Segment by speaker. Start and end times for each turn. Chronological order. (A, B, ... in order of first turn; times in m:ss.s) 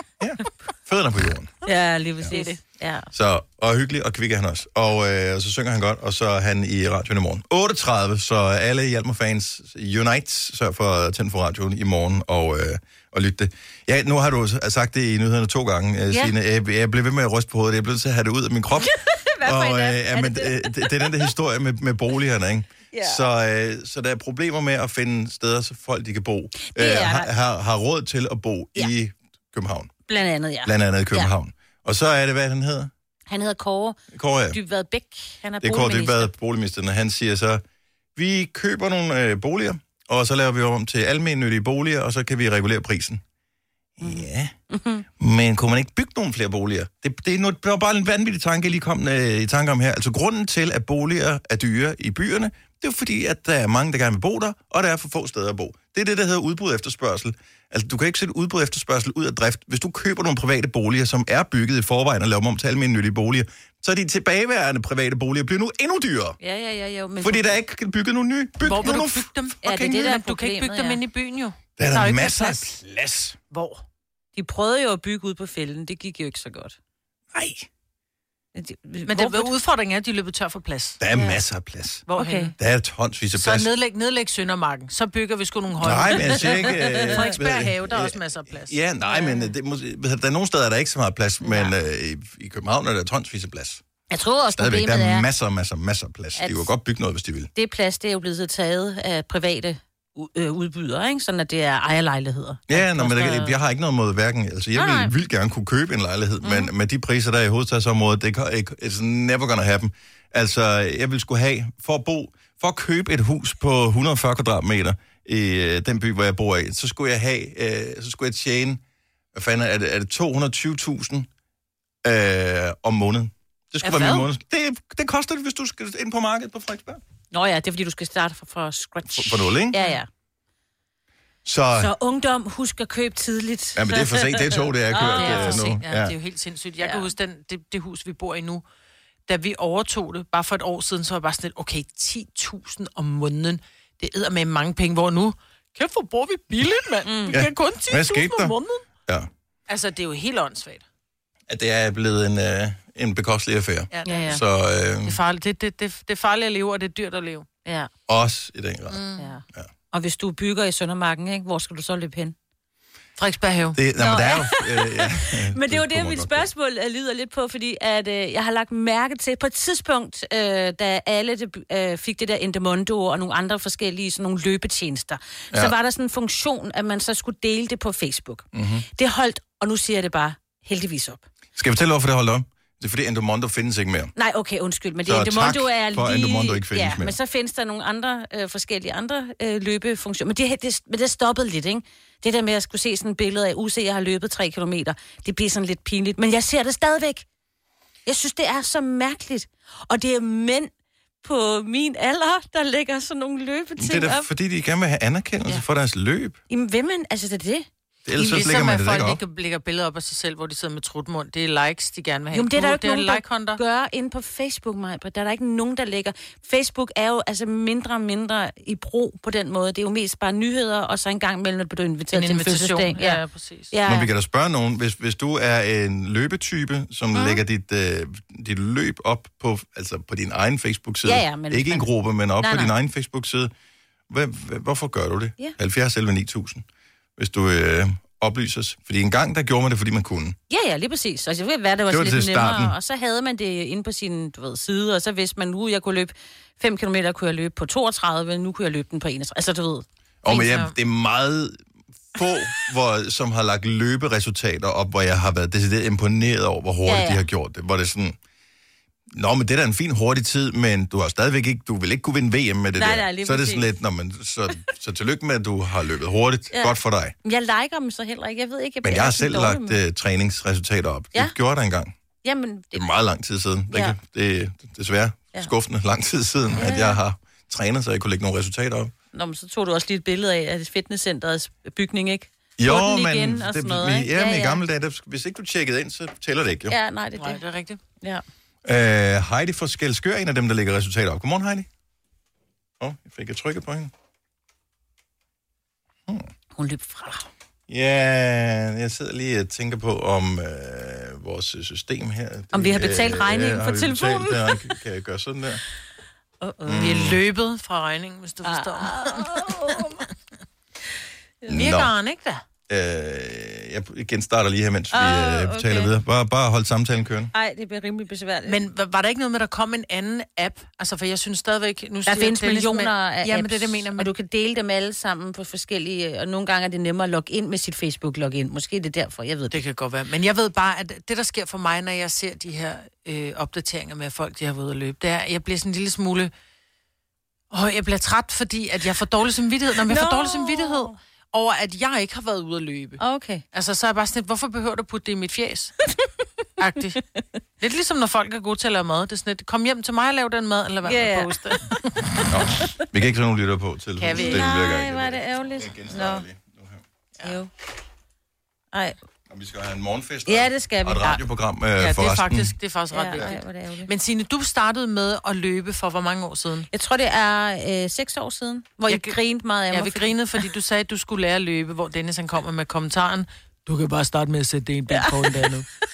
0:00.2-0:01.5 A
0:01.6-0:03.1 B
0:02.3-0:02.6 C
0:03.1-0:29.9 A
0:18.8-0:21.3 B
0:22.9-0:23.2 B
0:26.6-0:27.3 B
0:30.1-0:31.3 B
0:30.6-0:32.9 A
0:33.3-0:34.0 B
0:34.1-0:34.6 A
0:34.5-0:36.3 B
0:35.6-0:37.6 A
0:38.2-0:43.2 A
0:44.0-0:44.5 A
0:44.0-0:45.0 B
0:45.2-1:06.4 A
1:06.4-1:07.6 B
1:07.2-1:10.0 A
1:08.6-1:12.8 C
1:09.6-1:11.0 B
1:11.8-1:13.4 A
1:13.5-1:13.8 C
1:14.3-1:16.8 B
1:17.3-1:17.6 A
1:18.5-1:19.5 B
1:19.0-1:21.0 C
1:21.0-1:22.0 A
1:22.1-1:22.5 C
1:22.2-1:22.5 B
1:22.6-1:23.7 A
1:23.3-1:28.8 C
1:25.8-1:33.8 A
1:26.1-1:27.4 B
1:29.0-1:29.5 B
1:31.4-1:31.7 B
1:34.1-1:35.3 B
1:34.5-1:37.5 A
1:36.4-1:36.7 B
1:37.5-1:43.5 B
1:42.7-1:58.8 A
1:44.7-1:45.1 B
1:46.4-1:46.7 B
1:59.3-2:01.3 A
2:02.0-2:07.0 A
2:03.8-2:04.3 C
2:07.3-2:10.1 B
2:09.1-2:09.8 A
2:11.4-2:11.9 A
2:11.7-2:15.7 B
2:13.8-2:16.1 A
2:14.9-2:18.6 C
2:19.3-2:28.8 C
2:27.0-2:27.3 B
2:27.3-2:28.5 A
2:29.7-2:30.8 C
2:31.5-2:35.2 A
2:33.9-2:34.4 C
2:34.0-2:34.4 B
2:35.0-2:37.4 C
2:38.1-2:39.0 A
2:38.9-2:39.3 C
2:39.2-2:42.3 B
2:43.2-2:43.8 C
2:43.7-2:46.5 A
2:44.0-3:01.2 B
2:58.5-2:58.8 A
3:01.5-3:04.1 A
3:04.2-3:17.2 B
3:05.0-3:07.2 A
3:18.0-3:20.7 B
3:21.2-3:24.3 B
3:23.8-3:26.4 A
3:26.5-3:27.7 B
3:28.0-3:29.2 A
3:28.2-3:33.6 C
3:32.3-3:43.2 B
3:42.1-3:43.7 C
3:43.7-3:44.1 B
3:43.8-3:53.5 A
3:47.1-3:47.4 B
3:51.0-3:52.7 B
3:54.1-3:56.6 A
3:57.2-4:00.4 A
4:00.5-4:10.7 B
4:01.9-4:02.8 A
4:10.2-4:11.6 A
4:12.1-4:18.2 A
4:16.8-4:17.2 B
4:19.1-4:27.1 A
4:22.8-4:23.7 B
4:26.5-4:29.8 B
4:28.8-4:31.9 A
4:32.2-4:32.9 B
4:32.7-4:38.9 A
4:33.7-4:34.0 B
4:36.6-4:37.0 B
4:39.1-4:44.6 B
4:42.6-4:46.8 A
4:46.7-4:47.4 B
4:47.2-4:47.8 C
4:48.6-4:51.7 A
4:52.8-4:53.9 A
4:56.5-4:57.3 B
4:57.7-5:05.6 A
5:02.5-5:04.8 B
5:06.4-5:06.8 B
5:06.6-5:07.2 A
5:06.7-5:09.5 C
5:08.4-5:10.0 B
5:11.5-5:11.9 A
5:11.5-5:12.4 C
5:12.7-5:17.3 A
5:14.9-5:15.9 B
5:17.3-5:18.6 B
5:18.4-5:24.1 C
5:22.0-5:29.6 B
5:29.5-5:36.3 C
5:37.5-5:43.0 C
5:39.9-5:40.9 B
5:43.0-5:43.4 B
5:43.5-5:45.7 C
5:46.6-5:47.0 C
5:47.6-5:51.8 C
5:50.8-5:52.8 B
5:52.3-5:56.8 A
5:54.0-5:54.4 C
5:54.1-5:56.2 B
5:57.2-5:57.5 B
5:59.3-6:02.5 A
6:00.3-6:01.2 B
6:01.8-6:06.7 C
6:02.9-6:03.9 B
6:06.7-6:10.1 B
6:08.9-6:09.2 C
6:09.7-6:15.7 C
6:14.9-6:15.4 B